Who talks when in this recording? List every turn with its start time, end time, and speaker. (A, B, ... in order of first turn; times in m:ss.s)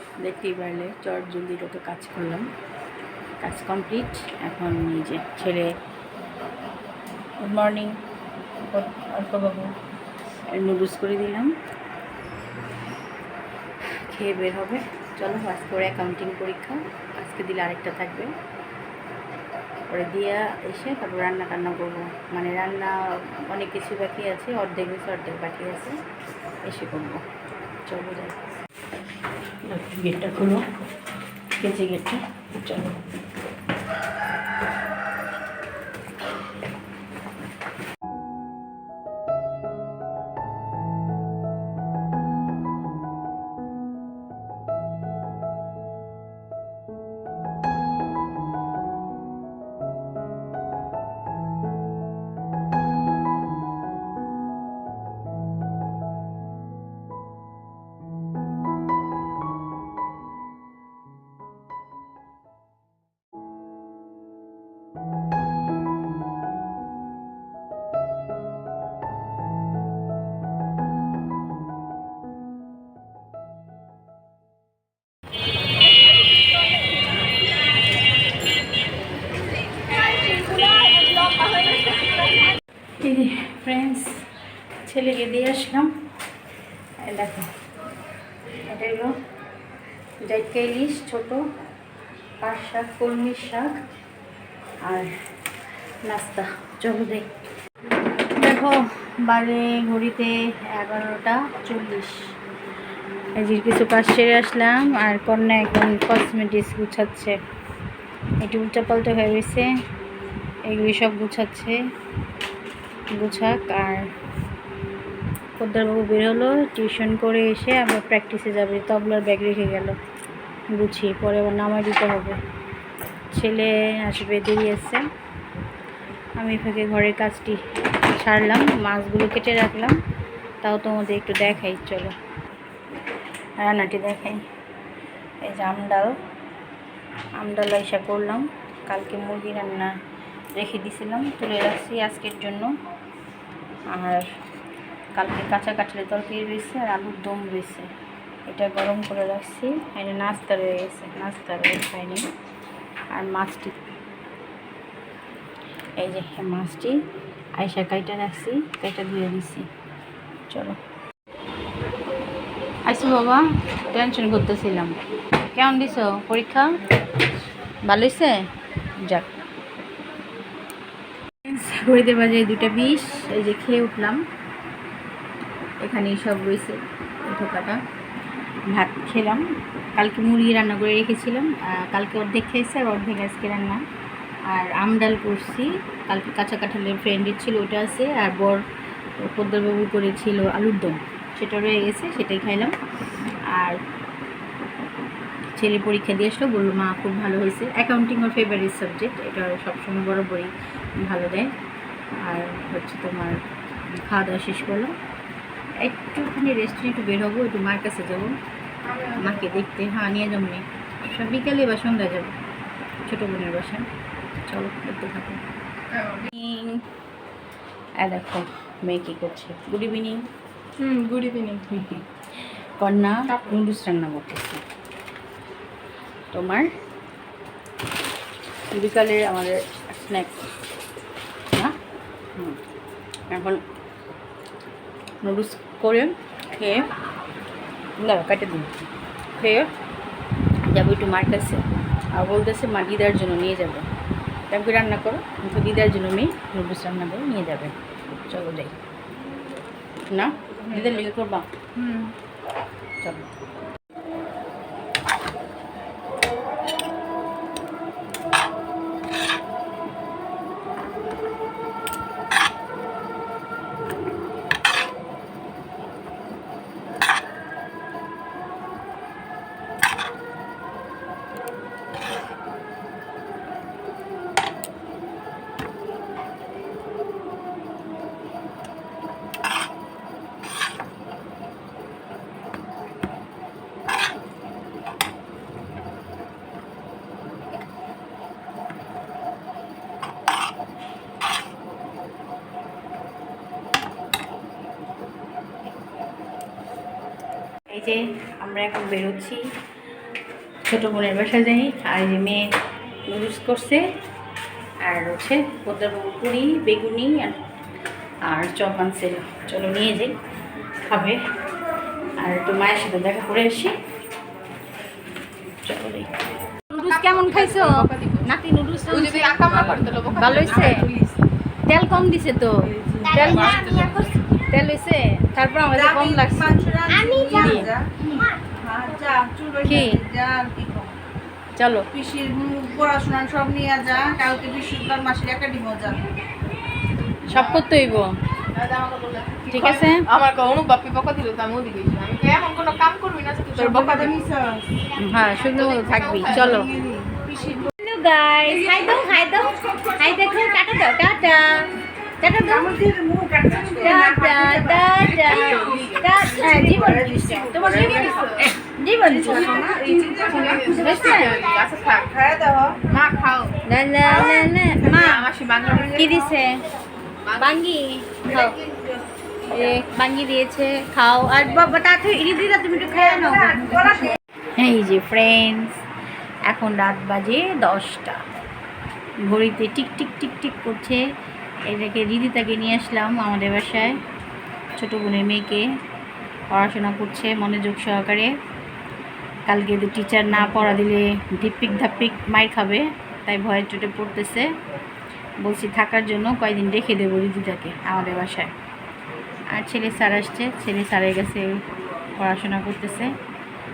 0:00.2-0:02.5 A
0:03.4-0:05.7 A
0:07.4-0:08.0 A
0:08.7-0:09.7 A
0:10.5-0:11.5 A
0:13.9-0:18.3 A
0:19.9-0:26.0 A
0:26.6-0:27.2 A
0:27.8-0:28.4 A
0:29.6-0:30.6 A
0:31.6-0:33.0 A
1:23.0-1:26.0 A
1:27.0-1:27.5 A
1:28.7-1:29.2 A
1:30.2-1:31.6 A
1:32.4-1:33.8 A
1:34.8-1:35.2 A
1:36.0-1:37.4 A
1:38.2-1:42.4 A
1:43.4-1:47.4 A
1:48.4-1:49.7 A
1:50.7-1:51.8 A
1:53.1-1:54.1 A
1:55.6-2:00.0 A
2:00.7-2:02.4 A
2:03.3-2:05.1 A
2:06.4-2:10.0 A
2:10.6-2:12.1 A
2:13.6-2:14.4 A
2:15.4-2:16.2 A
2:17.4-2:19.9 A
2:20.5-2:22.7 A
2:23.9-2:24.3 A
2:25.1-2:27.9 A
2:28.5-2:32.3 A
2:33.1-2:33.8 A
2:36.0-2:39.7 A
2:40.5-2:40.8 A
2:42.8-2:47.2 A
2:47.8-2:49.3 A
2:51.4-2:54.2 A
2:55.8-2:57.8 A
2:58.7-3:03.8 A
3:04.5-3:08.6 A
3:09.2-3:12.8 A
3:13.5-3:13.8 A
3:15.6-3:21.5 A
3:22.2-3:23.4 A
3:24.0-3:24.9 A
3:25.8-3:28.4 A
3:28.9-3:29.4 B
3:29.1-3:32.3 A
3:33.0-3:33.9 A
3:34.4-3:35.4 A
3:36.0-3:36.8 A
3:38.0-3:40.2 A
3:40.8-3:41.7 B
3:41.7-3:44.6 A
3:46.3-3:46.7 A
3:48.7-3:50.4 A
3:52.3-3:52.6 A
3:53.3-3:53.6 A
3:55.2-3:56.9 A
3:58.0-3:58.9 A
3:59.4-3:59.7 A
4:00.7-4:03.9 A
4:04.5-4:08.8 A
4:10.1-4:11.5 A
4:11.8-4:12.1 B
4:13.0-4:13.2 A
4:57.7-4:59.5 A
5:00.6-5:02.5 A
5:03.1-5:03.9 A
5:04.8-5:07.4 A
5:08.2-5:10.2 A
5:10.8-5:11.2 A
5:12.2-5:13.8 A
5:15.6-5:16.1 A
5:16.7-5:20.9 A
5:16.7-5:18.3 B
5:18.9-5:21.2 B
5:21.6-5:27.7 A
5:22.7-5:24.0 B
5:25.7-5:31.0 C
5:29.6-5:30.0 A
5:31.6-5:31.9 A
5:31.9-5:36.0 C
5:37.2-5:38.2 A
5:37.3-5:37.6 B
5:38.5-5:44.2 B
5:39.5-5:40.1 A
5:43.6-5:44.7 C
5:44.9-5:46.7 A
5:45.2-5:46.7 B
5:46.3-5:47.7 C
5:47.6-5:51.7 A
5:48.5-5:49.0 B
5:52.2-5:52.8 A
5:52.4-5:58.0 C
5:53.5-6:01.4 A
5:54.8-5:58.6 B
5:59.1-6:01.4 C
5:59.1-6:02.1 B
6:02.1-6:02.8 C
6:02.9-6:06.4 B
6:03.6-6:05.2 A
6:04.7-6:05.2 C
6:05.9-6:06.6 A
6:07.3-6:07.6 B
6:07.3-6:08.6 A
6:08.7-6:09.0 C
6:09.5-6:15.8 A
6:12.9-6:14.1 C
6:16.5-6:18.2 A
6:19.2-6:21.0 A
6:21.6-6:24.0 A
6:24.8-6:25.7 A
6:26.5-6:28.3 A
6:29.5-6:34.5 A
6:35.4-6:38.5 A
6:39.5-6:41.6 A
6:42.2-6:43.2 A